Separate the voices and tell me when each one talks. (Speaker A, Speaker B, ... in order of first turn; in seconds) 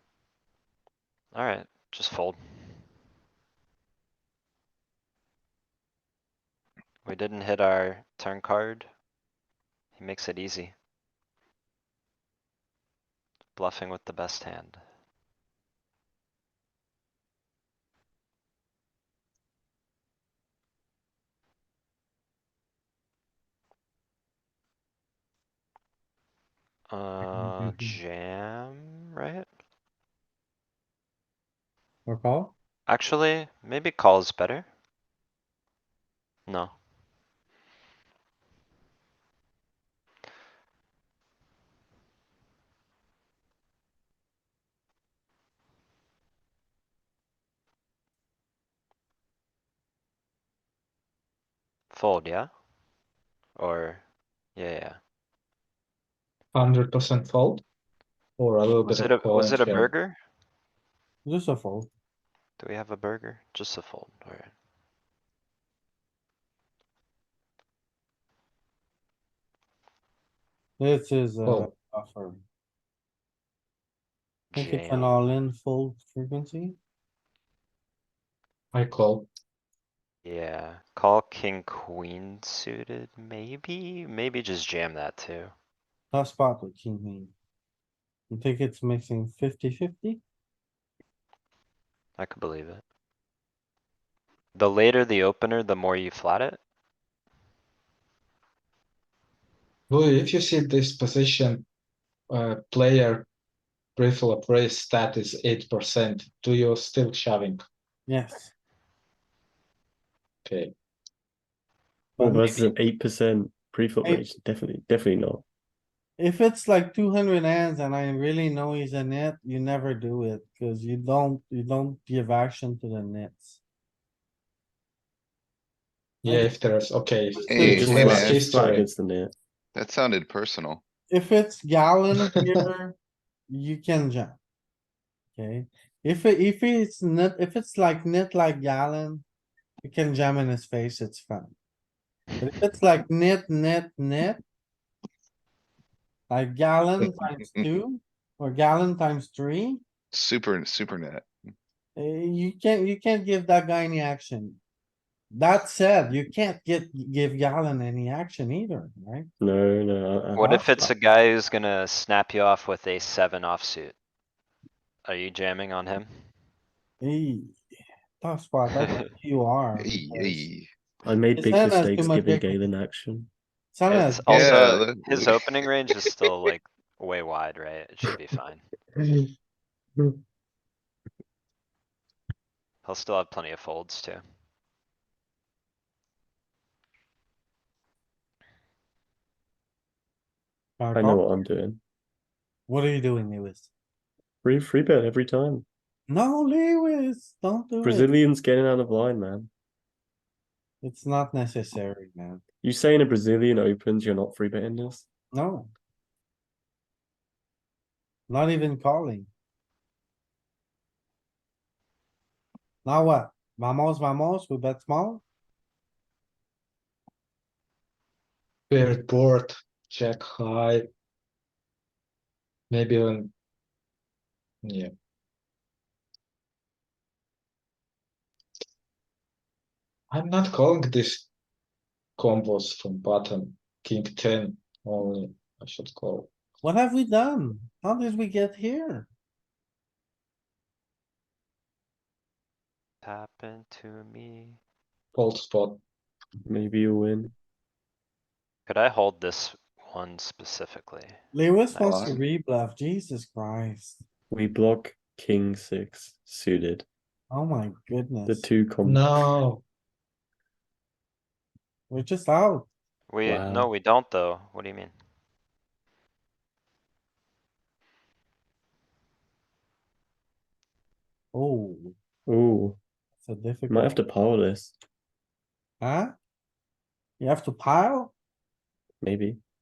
Speaker A: 1.3-2.8, 7.0-8.9, 10.0-10.8, 13.6-14.8, 26.9-29.5, 32.9-34.7, 36.5-36.7, 51.9-52.5, 53.6-54.0, 54.6-55.0, 58.8-60.2, 62.6-64.5, 74.5-75.2, 80.2-85.5, 92.2-92.8, 94.6-96.6, 160.4-164.0, 165.1-166.1, 173.9-178.7, 182.8-184.2, 243.0-244.6, 248.7-251.2, 251.8-252.2, 263.1-264.9
Speaker B: 32.1-32.5, 61.2-61.9, 70.8-72.4, 74.6-76.8, 86.1-87.3, 88.3-90.2, 108.1-108.5, 112.2-112.7, 116.2-123.6, 126.3-126.5, 127.3-128.4, 131.1-133.0, 133.5-134.4, 135.3-139.2, 139.8-141.6, 142.4-144.4, 146.3-149.8, 152.0-154.6, 155.3-159.3, 160.4-160.7, 167.0-167.6, 168.2-170.5, 171.4-172.6, 173.7-174.5, 190.8-191.2, 192.7-193.7, 196.1-198.1, 200.8-202.4, 205.3-205.7, 208.3-209.3, 212.8-215.2, 236.6-239.1, 251.3-254.0, 257.3-258.5, 261.9-262.7, 271.3-271.9, 273.2-273.9, 275.8-276.1, 277.2-278.1
Speaker C: 56.5-57.6, 58.4-59.9, 78.7-79.3, 99.9-101.7, 102.3-103.3, 104.0-107.6, 110.5-110.7, 126.2-128.9, 218.7-220.9, 222.7-223.3, 224.6-224.9, 230.1-231.3, 232.2-236.3, 245.1-245.8, 258.9-259.6
Speaker D: 112.2-115.4, 127.6-129.3, 159.4-160.9, 171.0-173.3, 179.0-179.3, 190.9-191.8, 194.4-195.7, 197.8-199.5, 202.6-205.1, 246.5-247.3, 254.3-256.9, 258.3-259.1, 263.2-263.7, 272.3-272.8, 273.7-274.8, 279.0-279.4
Speaker E: 127.5-128.4, 129.8-130.8, 150.1-151.3, 169.8-170.7, 174.3-175.4, 251.8-252.2